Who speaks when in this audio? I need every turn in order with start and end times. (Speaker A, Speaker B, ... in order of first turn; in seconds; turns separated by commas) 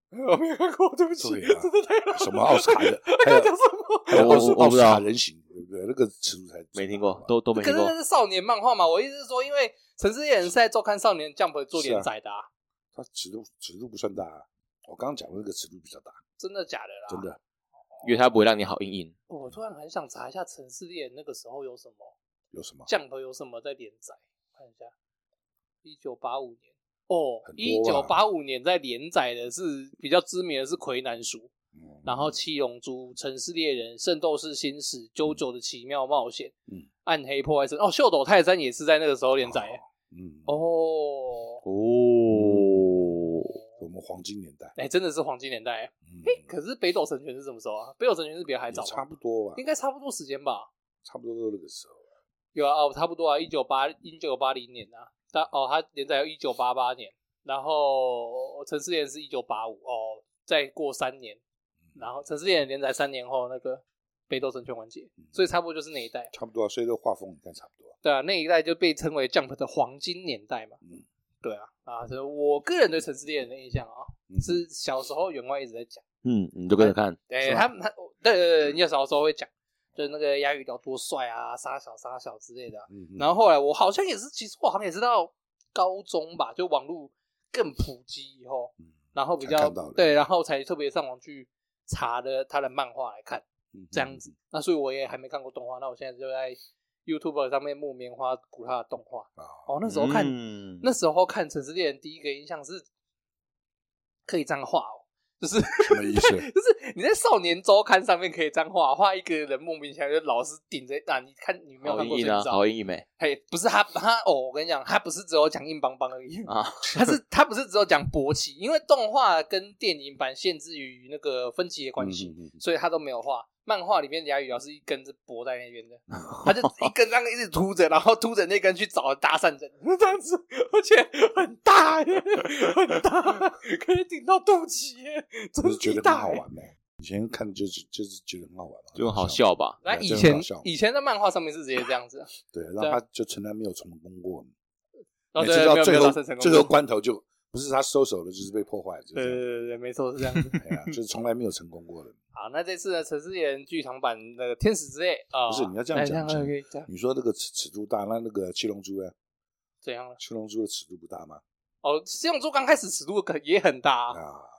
Speaker A: 0.1-4.6, Speaker B: 1.2-3.5, Speaker B: 4.1-7.3, Speaker C: 4.1-5.0, Speaker C: 6.8-7.9, Speaker A: 7.5-12.5, Speaker B: 11.7-12.1, Speaker B: 12.9-16.2, Speaker A: 16.4-17.3, Speaker B: 17.1-17.4, Speaker C: 18.0-19.1, Speaker A: 19.3-22.1, Speaker B: 22.5-22.9, Speaker A: 22.9-24.9, Speaker A: 25.8-31.5, Speaker B: 27.4-28.1, Speaker B: 31.8-32.4, Speaker A: 32.0-39.8, Speaker B: 39.4-40.5, Speaker A: 40.5-41.6, Speaker C: 41.6-43.6, Speaker B: 42.3-42.8, Speaker B: 43.8-44.8, Speaker A: 44.8-49.0, Speaker B: 46.1-46.5, Speaker B: 48.7-49.6, Speaker A: 49.6-50.7, Speaker B: 51.0-52.0, Speaker A: 52.5-61.4, Speaker A: 62.0-66.3, Speaker B: 66.3-67.9, Speaker A: 68.0-70.8, Speaker A: 71.4-76.0, Speaker B: 74.3-74.6, Speaker C: 76.2-77.2, Speaker A: 76.8-102.9, Speaker B: 82.9-83.3, Speaker B: 89.4-90.2, Speaker B: 93.7-94.3, Speaker B: 99.4-99.7, Speaker C: 99.8-100.9, Speaker A: 104.3-112.6, Speaker B: 105.8-106.5, Speaker C: 111.8-113.0, Speaker A: 113.2-136.4, Speaker C: 116.5-117.2, Speaker B: 122.0-122.6, Speaker C: 126.3-126.9, Speaker B: 135.6-140.7, Speaker C: 139.0-139.8, Speaker A: 139.8-143.0, Speaker B: 142.5-144.5, Speaker A: 145.3-146.7, Speaker B: 145.4-149.5, Speaker A: 149.2-150.7, Speaker B: 150.6-152.2, Speaker A: 152.3-156.9, Speaker B: 155.5-159.1, Speaker A: 159.8-160.2, Speaker B: 160.2-161.4, Speaker A: 161.8-164.2, Speaker B: 164.1-164.5